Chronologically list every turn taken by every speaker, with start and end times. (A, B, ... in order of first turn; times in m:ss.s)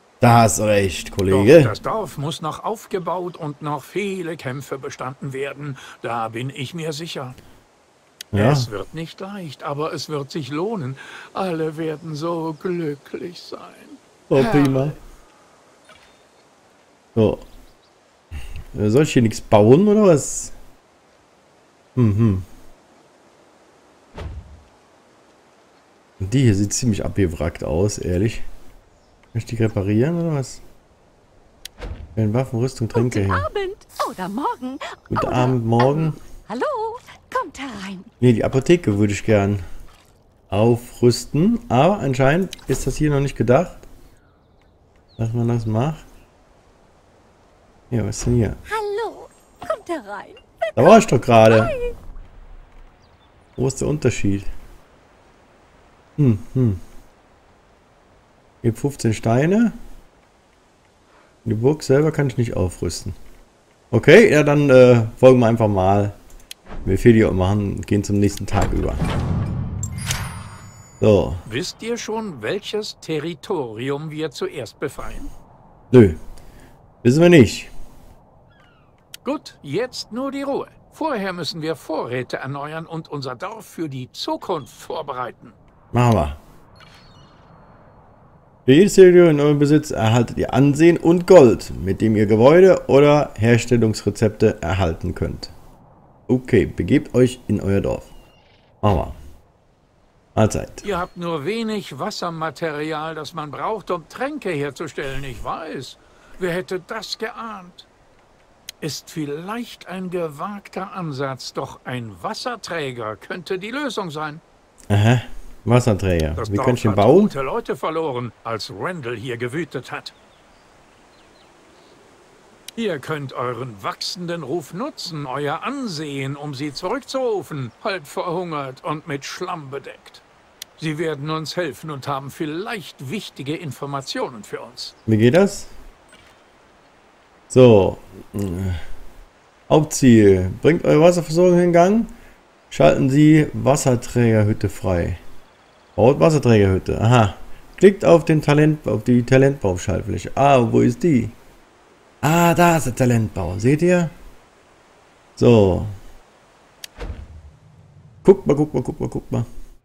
0:00.2-0:01.7 A
0:01.3-0:07.4 B
0:08.3-0:08.7 A
0:08.3-0:14.8 B
0:14.3-0:15.0 A
0:17.1-0:17.4 A
0:18.7-0:20.5 A
0:22.0-0:22.4 A
0:26.2-0:28.4 A
0:29.3-0:30.6 A
0:32.2-0:33.5 A
0:32.9-0:38.1 C
0:35.1-0:36.2 A
0:38.2-0:39.6 A
0:40.5-0:43.8 A
0:45.2-0:46.0 A
0:47.9-0:48.6 A
0:48.7-0:51.9 C
0:50.7-0:51.8 A
0:53.6-0:54.5 A
0:56.2-0:56.8 A
0:58.6-0:59.8 A
1:01.4-1:03.2 A
1:03.9-1:06.2 A
1:06.8-1:09.0 A
1:11.0-1:11.4 A
1:11.4-1:15.3 B
1:15.9-1:16.2 A
1:17.0-1:17.7 A
1:19.2-1:25.6 B
1:25.9-1:26.4 A
1:28.6-1:35.5 A
1:36.3-1:38.1 A
1:38.8-1:39.2 A
1:40.3-1:40.8 A
1:40.8-1:47.9 B
1:48.8-1:54.4 B
1:54.9-1:57.3 A
1:56.4-2:00.1 B
2:02.8-2:10.2 B
2:10.8-2:14.9 B
2:15.1-2:15.7 A
2:17.5-2:18.8 A
2:19.7-2:22.1 A
2:22.7-2:25.2 A
2:26.0-2:31.4 A
2:32.2-2:34.1 A
2:35.4-2:35.9 A
2:38.2-2:39.5 A